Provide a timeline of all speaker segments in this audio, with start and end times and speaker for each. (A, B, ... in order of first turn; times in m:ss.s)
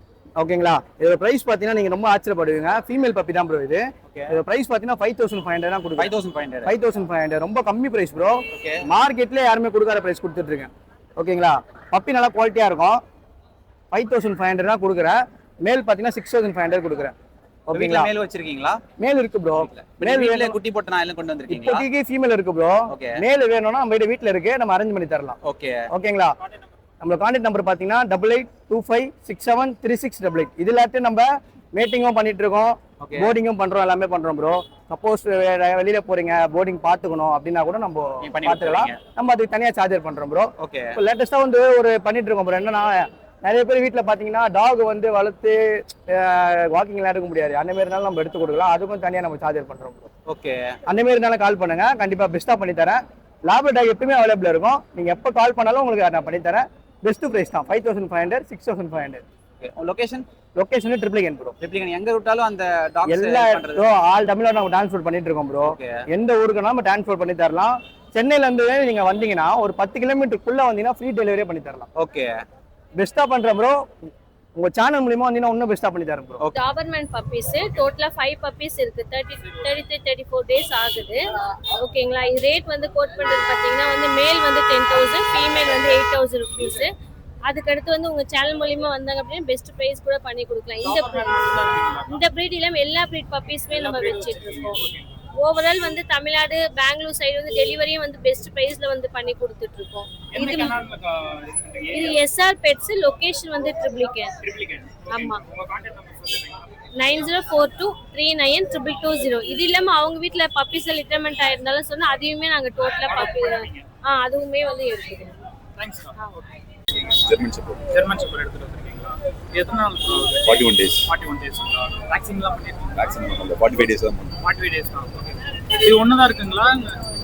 0:00.4-0:06.1 A
0:04.1-0:04.4 B
0:06.0-0:06.7 B
0:06.6-0:13.0 A
0:08.5-0:08.8 B
0:13.9-0:17.1 A
0:17.7-0:18.1 A
0:17.7-0:18.8 B
0:19.0-0:20.6 A
0:19.6-0:21.8 B
0:21.5-0:25.4 A
0:22.9-0:23.2 B
0:25.4-0:25.8 B
0:25.9-0:26.3 A
0:27.0-0:50.1 A
0:33.0-0:33.3 B
0:38.2-0:39.0 B
0:40.6-0:41.0 B
0:50.3-0:50.8 B
0:50.9-0:59.2 A
0:59.6-1:00.2 B
1:00.6-1:01.5 A
1:01.6-1:03.9 B
1:03.0-1:11.9 A
1:12.0-1:12.3 B
1:13.0-1:13.8 A
1:14.6-1:16.4 A
1:16.5-1:21.2 C
1:21.7-1:26.9 C
1:27.4-1:34.8 C
1:30.8-1:32.2 D
1:33.7-1:35.2 D
1:35.4-1:40.8 C
1:40.3-1:42.2 D
1:41.9-1:44.3 C
1:44.4-1:46.7 D
1:45.1-1:45.4 C
1:47.0-1:55.3 C
1:53.0-1:53.8 D
1:55.8-1:56.4 D
1:57.2-1:57.8 E
1:57.9-2:03.1 D
2:00.5-2:01.0 E
2:03.0-2:04.3 E
2:04.4-2:06.9 D